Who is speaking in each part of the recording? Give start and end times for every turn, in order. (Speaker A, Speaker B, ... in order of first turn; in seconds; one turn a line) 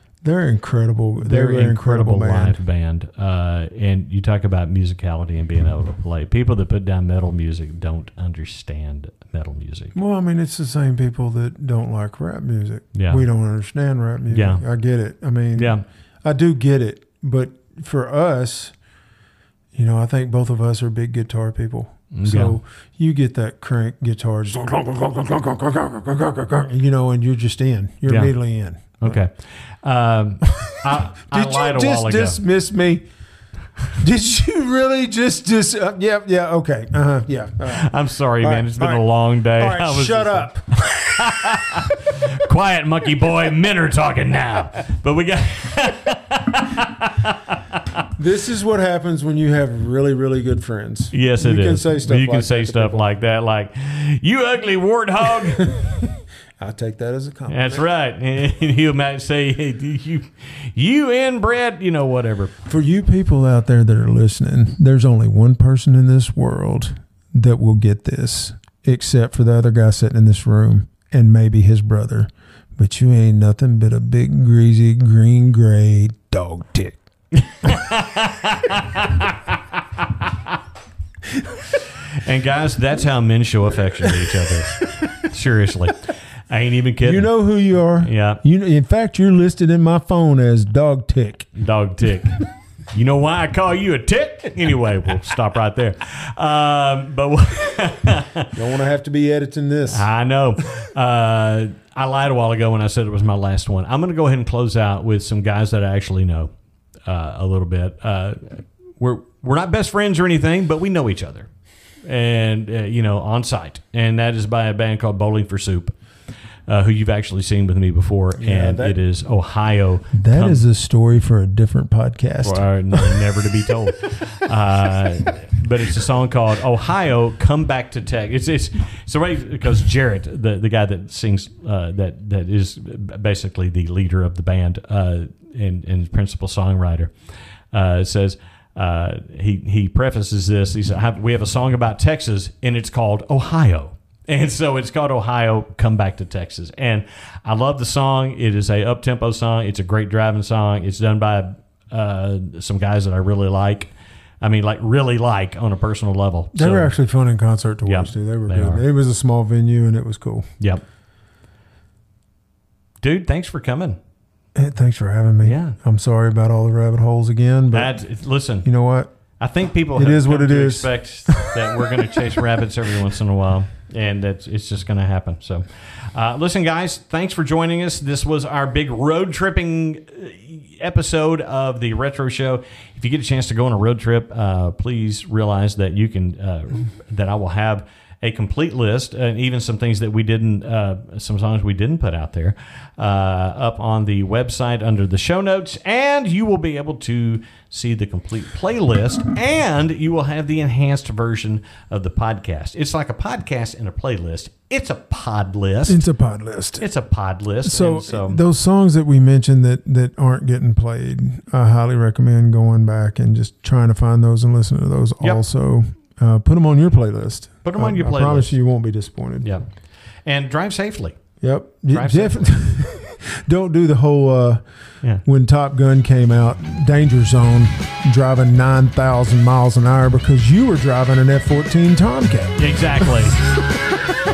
Speaker A: 0.2-2.6
Speaker B: 1.2-9.9
Speaker A: 9.9-18.7
Speaker B: 12.9-13.2
Speaker B: 14.3-14.6
Speaker B: 15.6-15.8
Speaker A: 19.7-29.2
Speaker B: 22.1-22.6
Speaker B: 28.1-28.3
Speaker B: 29.0-32.4
Speaker A: 30.5-33.0
Speaker A: 34.0-41.8
Speaker B: 37.7-40.5
Speaker B: 41.1-48.0
Speaker A: 48.1-53.1
Speaker B: 51.1-55.7
Speaker A: 55.3-57.9
Speaker B: 57.5-62.5
Speaker A: 62.6-77.0
Speaker B: 77.3-80.3
Speaker B: 82.1-87.3
Speaker A: 87.0-91.5
Speaker B: 88.0-88.4
Speaker B: 91.5-98.5
Speaker A: 98.5-100.1
Speaker B: 99.9-106.5
Speaker B: 107.1-111.5
Speaker B: 112.0-116.0
Speaker B: 116.7-120.6
Speaker A: 118.4-119.0
Speaker A: 120.1-123.3
Speaker B: 122.4-137.1
Speaker B: 137.7-156.9
Speaker A: 156.5-160.5
Speaker B: 157.8-158.8
Speaker B: 163.0-164.0
Speaker A: 164.6-168.0
Speaker B: 165.4-165.8
Speaker B: 167.7-168.7
Speaker A: 168.6-169.1
Speaker B: 169.4-206.0
Speaker A: 169.9-172.2
Speaker A: 205.9-206.8
Speaker B: 206.8-208.4
Speaker A: 207.6-219.5
Speaker B: 217.6-218.6
Speaker B: 219.4-219.7
Speaker B: 220.3-221.2
Speaker A: 221.4-224.6
Speaker B: 221.9-222.6
Speaker A: 225.2-233.4
Speaker B: 232.6-233.4